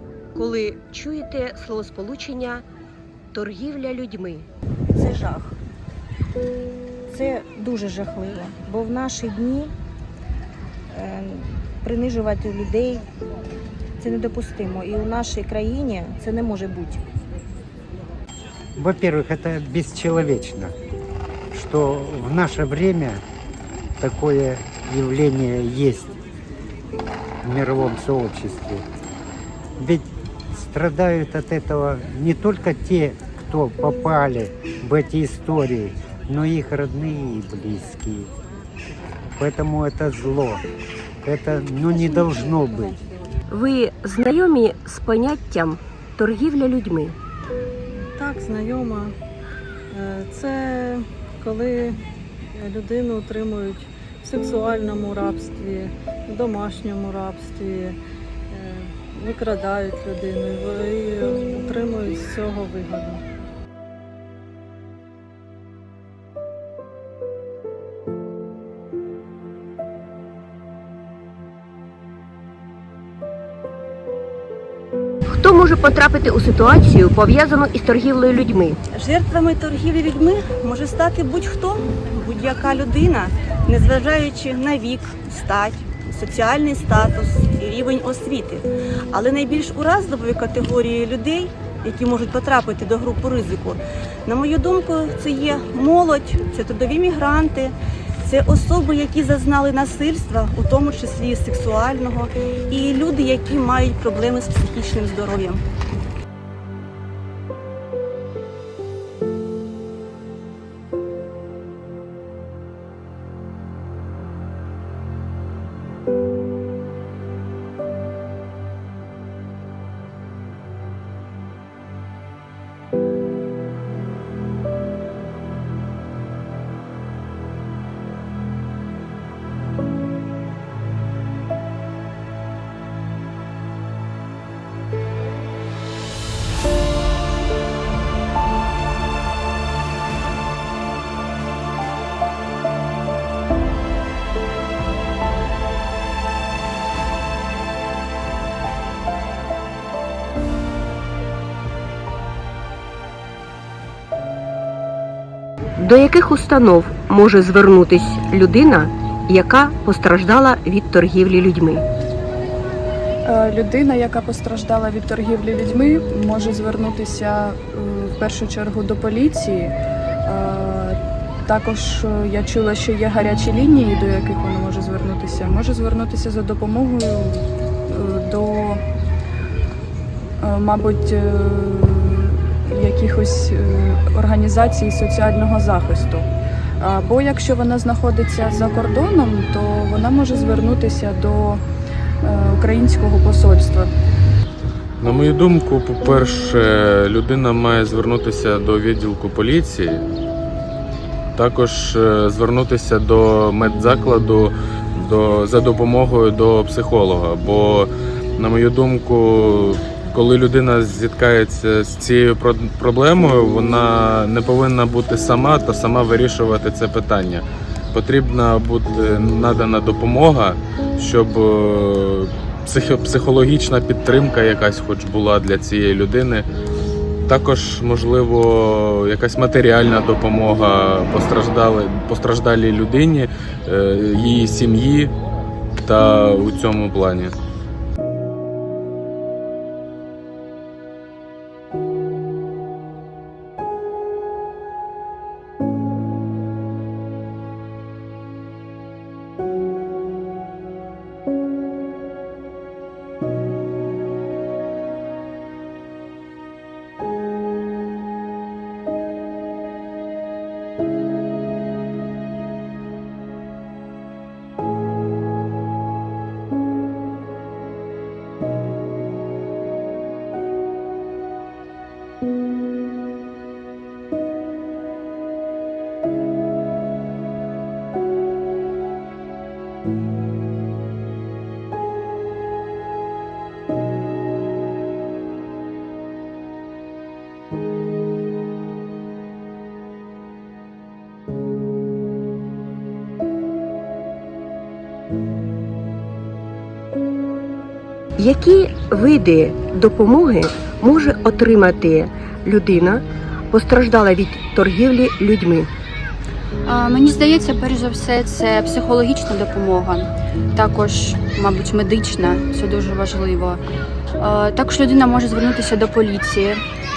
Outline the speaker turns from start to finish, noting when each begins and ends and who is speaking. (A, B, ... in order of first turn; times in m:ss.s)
0:00.3-0:02.6 A
0:03.3-0:04.4 A
0:04.9-0:05.5 B
0:07.1-0:09.7 B
0:10.9-0:13.0 B
0:14.0-0:17.0 B
0:18.8-0:20.7 C
0:21.5-0:23.2 C
0:24.0-0:26.1 C
0:27.4-0:28.8 C
0:29.8-0:38.3 C
0:39.4-0:40.6 C
0:41.2-0:43.0 C
0:43.5-0:47.1 A
0:48.1-0:49.1 D
0:49.9-0:52.0 D
0:52.6-0:58.0 D
0:58.5-1:03.2 D
1:15.3-1:18.8 A
1:18.9-1:45.6 E
2:35.8-2:41.8 A
2:43.2-2:49.7 F
2:50.2-2:58.8 F
3:00.4-3:06.3 F
3:06.8-3:11.6 F
3:12.2-3:13.9 F
3:15.0-3:20.0 G
3:21.4-3:46.4 G
3:47.2-3:55.1 G
3:55.8-3:57.3 G
4:58.2-5:05.7 A
5:06.6-5:13.6 H
5:14.2-5:16.6 H